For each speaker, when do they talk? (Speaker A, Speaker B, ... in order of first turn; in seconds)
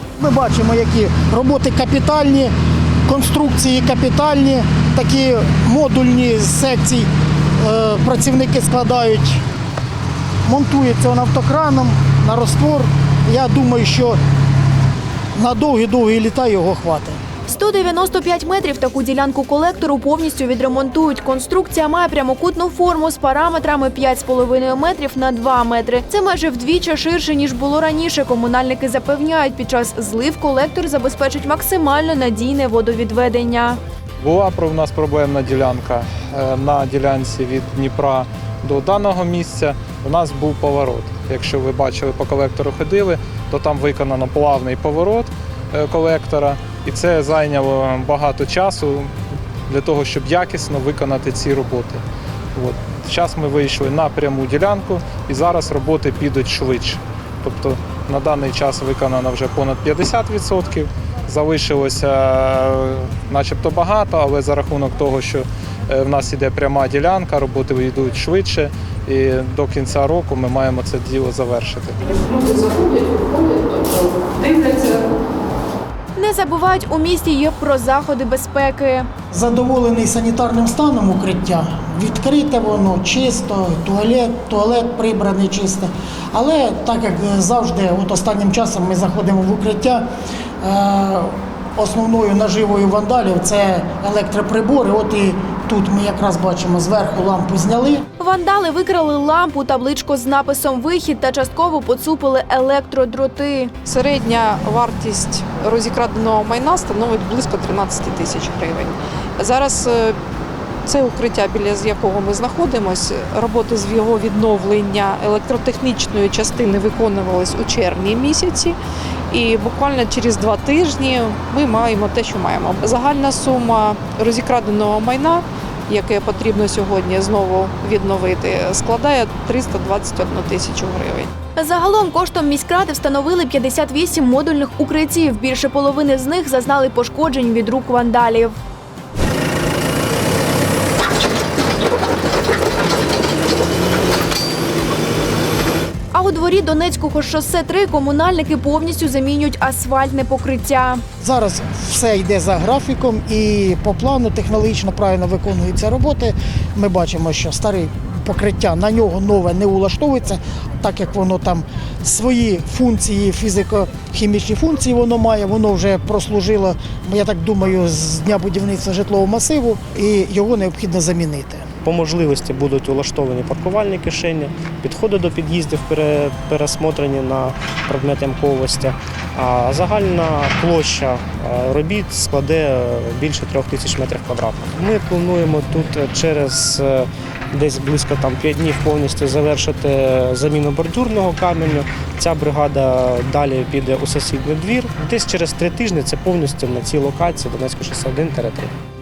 Speaker A: 0.2-2.5, 3.1-7.1, 7.6-9.4, 10.4-14.2, 15.4-17.2, 79.3-90.0, 90.6-98.0, 151.2-171.7
Speaker B: 17.5-33.8, 76.2-79.1, 98.2-103.7, 131.6-138.6, 146.1-151.0
Speaker C: 34.2-49.1, 49.7-52.0, 52.5-72.1
Speaker D: 72.1-75.1, 103.8-110.2, 110.9-118.8, 119.3-131.3
Speaker E: 171.8-198.7